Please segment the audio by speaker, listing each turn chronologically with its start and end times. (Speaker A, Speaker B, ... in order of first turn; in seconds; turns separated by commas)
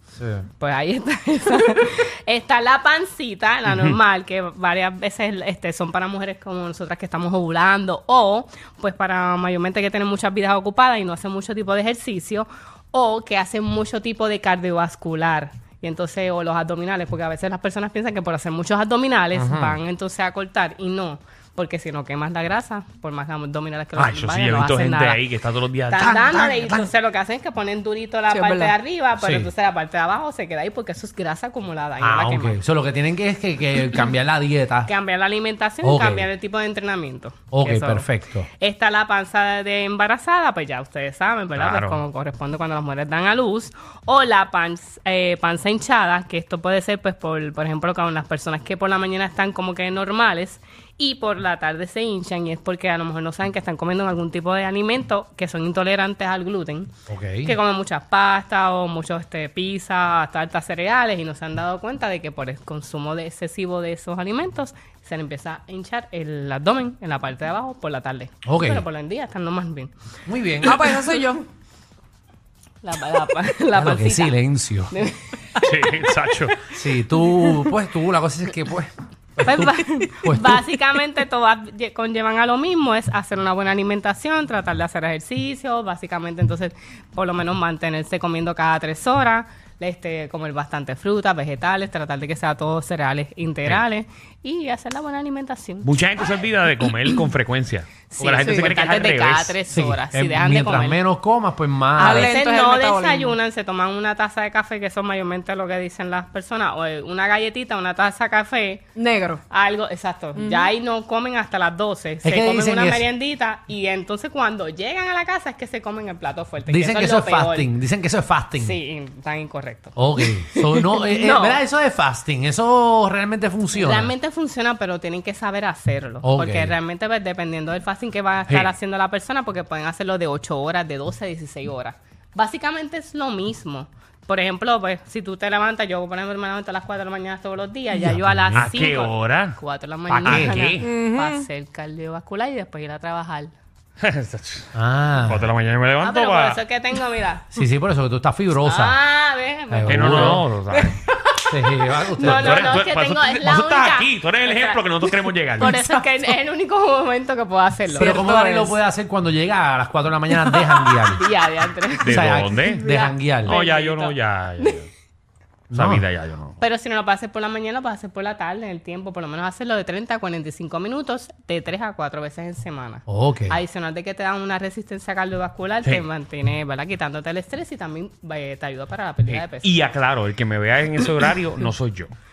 Speaker A: 0.2-0.5, Speaker B: 0.6-25.2, Speaker C: 3.7-4.0, Speaker A: 19.3-19.8, Speaker C: 23.9-26.3, Speaker B: 25.9-32.6, Speaker A: 26.0-26.9, Speaker D: 28.3-28.7, Speaker A: 29.2-29.5, Speaker A: 32.0-34.9, Speaker B: 34.8-56.9, Speaker A: 35.8-36.3, Speaker A: 37.5-38.5, Speaker C: 41.5-42.0, Speaker A: 57.1-57.5, Speaker B: 57.4-69.9, Speaker A: 68.4-68.8, Speaker A: 70.2-70.8, Speaker D: 70.6-71.5, Speaker B: 72.8-74.4, Speaker A: 73.7-74.9, Speaker B: 74.9-75.6, Speaker C: 75.6-76.6, Speaker A: 76.7-80.7, Speaker B: 79.4-95.9, Speaker C: 95.8-99.5, Speaker B: 98.1-101.0, Speaker D: 98.4-98.7, Speaker A: 99.7-102.3, Speaker D: 102.0-103.3, Speaker B: 102.0-108.8, Speaker D: 109.0-109.4, Speaker B: 109.5-117.7, Speaker D: 110.3-110.7, Speaker A: 112.2-113.1, Speaker A: 116.7-118.8, Speaker B: 118.6-120.0, Speaker A: 119.9-124.1, Speaker B: 120.5-121.6, Speaker B: 123.7-143.5, Speaker A: 126.2-126.7, Speaker A: 137.9-138.7, Speaker C: 138.5-139.6, Speaker A: 140.1-140.6, Speaker C: 140.2-140.8, Speaker D: 140.8-141.4, Speaker C: 144.0-144.7, Speaker A: 144.7-145.5, Speaker C: 145.2-146.6, Speaker B: 146.0-147.4, Speaker A: 147.5-149.0, Speaker B: 148.6-150.4, Speaker A: 149.7-150.5, Speaker C: 149.9-151.0, Speaker A: 151.5-152.8, Speaker B: 152.0-158.3, Speaker C: 152.2-155.8, Speaker A: 157.9-161.2, Speaker D: 158.0-158.7, Speaker B: 161.1-164.8, Speaker C: 162.0-162.8, Speaker A: 162.1-163.6, Speaker C: 163.4-164.9, Speaker A: 165.7-166.0, Speaker C: 165.7-166.6, Speaker B: 166.6-179.7, Speaker A: 173.1-173.6, Speaker C: 179.3-182.1